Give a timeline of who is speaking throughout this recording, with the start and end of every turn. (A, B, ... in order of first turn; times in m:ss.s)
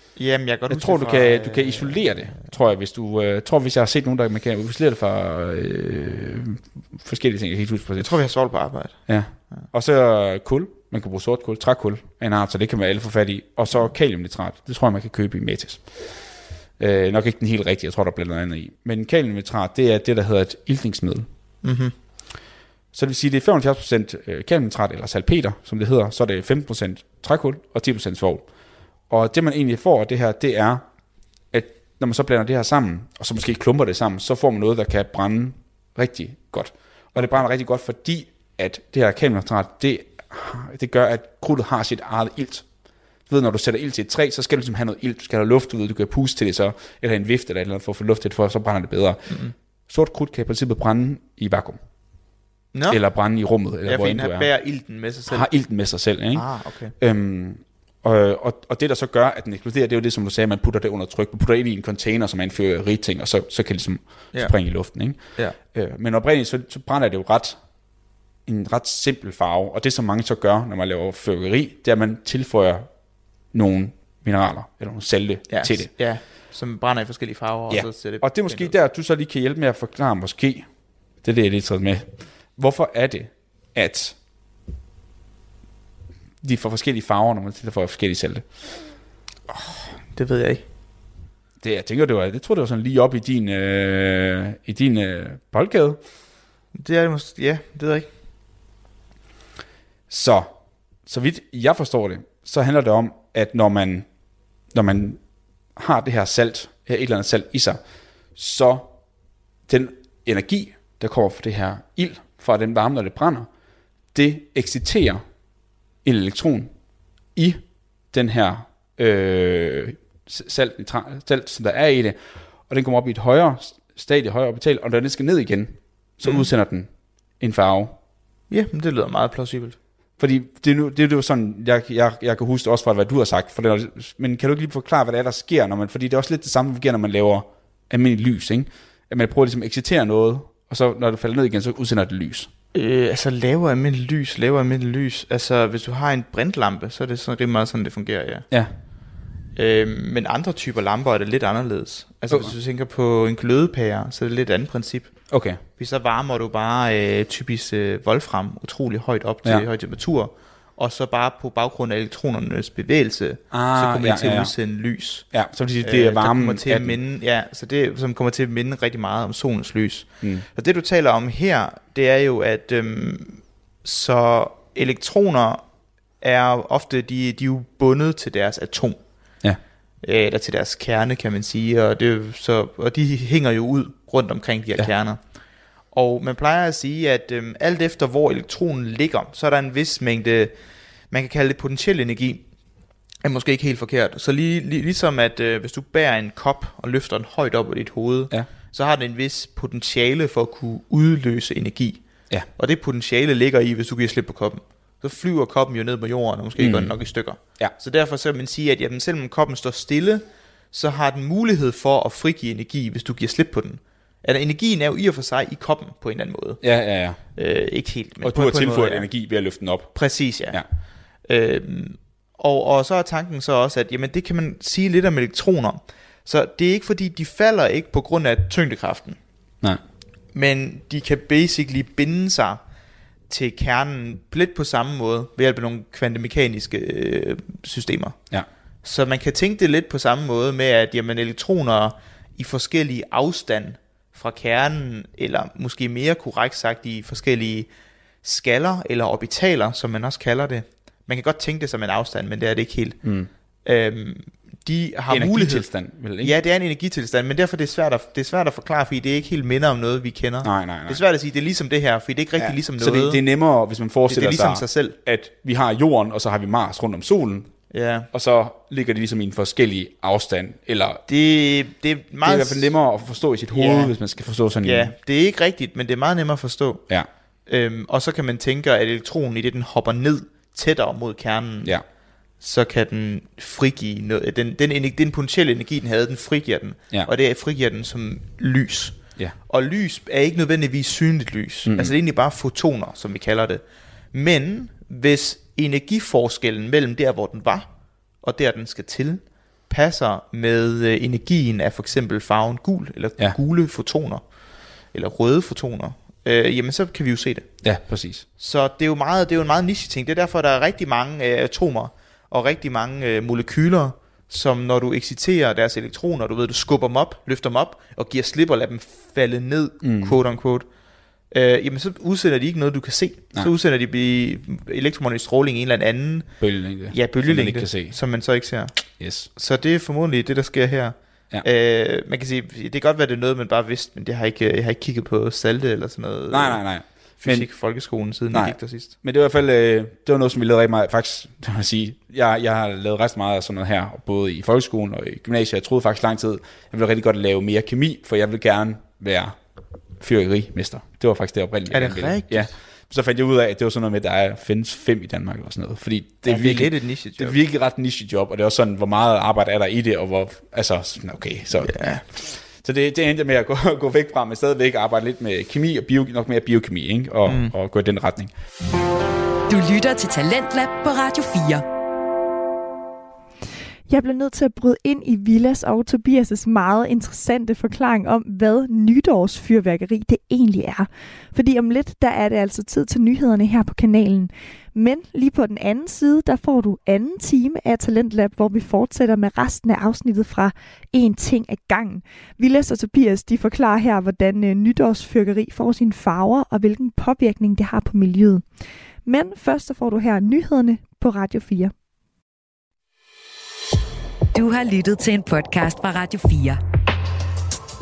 0:00.2-0:02.2 A
0:00.7-0:08.1 B
0:08.0-0:09.0 A
0:09.1-0:16.2 B
0:16.8-0:21.3 B
0:21.6-0:21.9 A
0:22.9-0:28.4 B
0:29.1-0:30.8 B
0:31.5-0:42.6 B
0:43.3-0:49.4 B
0:49.9-0:51.8 B
0:52.7-0:53.0 A
0:52.9-0:54.5 B
0:53.8-0:55.5 A
0:55.3-0:56.4 B
0:56.3-0:56.9 A
0:57.0-1:05.2 B
1:05.7-1:07.6 B
1:08.4-1:12.9 B
1:13.5-1:15.9 B
1:15.5-1:18.7 A
1:17.7-1:20.7 B
1:21.2-1:24.2 B
1:26.4-1:28.4 B
1:29.5-1:30.6 A
1:31.6-1:36.0 B
1:36.7-1:38.1 A
1:40.1-1:40.5 B
1:41.0-1:44.0 B
1:44.7-1:45.2 B
1:45.8-1:47.8 B
1:48.4-1:48.9 B
1:49.7-1:53.5 B
1:54.1-1:55.2 B
1:56.0-1:56.7 B
1:57.4-1:57.6 B
1:58.1-2:02.2 B
2:02.7-2:08.0 B
2:08.5-2:09.8 A
2:10.2-2:22.5 B
2:22.7-2:28.4 A
2:29.6-2:35.2 A
2:35.3-2:35.6 B
2:35.8-2:45.3 A
2:43.5-2:44.5 B
2:45.3-2:47.0 B
2:45.8-2:55.6 A
2:56.2-2:59.0 A
3:00.0-3:05.2 A
3:05.9-3:10.5 A
3:11.1-3:12.4 A
3:13.2-3:22.0 A
3:22.6-3:36.6 A
3:26.6-3:26.9 B
3:36.6-3:37.2 B
3:37.4-3:39.1 A
3:38.2-3:39.9 B
3:39.9-3:40.6 A
3:41.3-3:49.2 A
3:50.3-3:52.6 A
3:53.3-3:58.2 A
3:58.8-4:07.7 A
4:08.2-4:13.0 A
4:13.0-4:13.3 B
4:13.6-4:15.6 A
4:15.1-4:16.3 B
4:16.2-4:23.2 A
4:20.4-4:21.0 B
4:22.4-4:27.5 B
4:24.1-4:25.0 A
4:27.7-4:28.1 A
4:28.1-4:31.0 B
4:31.1-4:32.7 A
4:32.2-4:34.9 B
4:33.5-4:34.0 A
4:34.6-4:36.8 A
4:37.5-4:41.8 A
4:42.4-4:53.6 A
4:51.6-4:51.9 B
4:54.1-4:57.7 A
4:58.2-5:04.2 A
5:04.9-5:07.5 A
5:07.6-5:08.2 B
5:08.4-5:20.6 A
5:19.8-5:20.2 B
5:21.3-5:28.8 A
5:26.4-5:27.9 B
5:29.0-5:29.3 B
5:29.3-5:36.6 A
5:36.3-5:37.5 B
5:37.2-5:38.9 A
5:38.3-5:49.4 B
5:50.0-6:08.3 B
5:51.7-5:52.5 A
5:56.2-5:57.4 A
6:01.6-6:02.0 A
6:07.2-6:07.5 A
6:09.5-6:11.6 C
6:13.9-6:38.4 D
6:39.0-6:41.7 D
6:44.3-6:46.6 C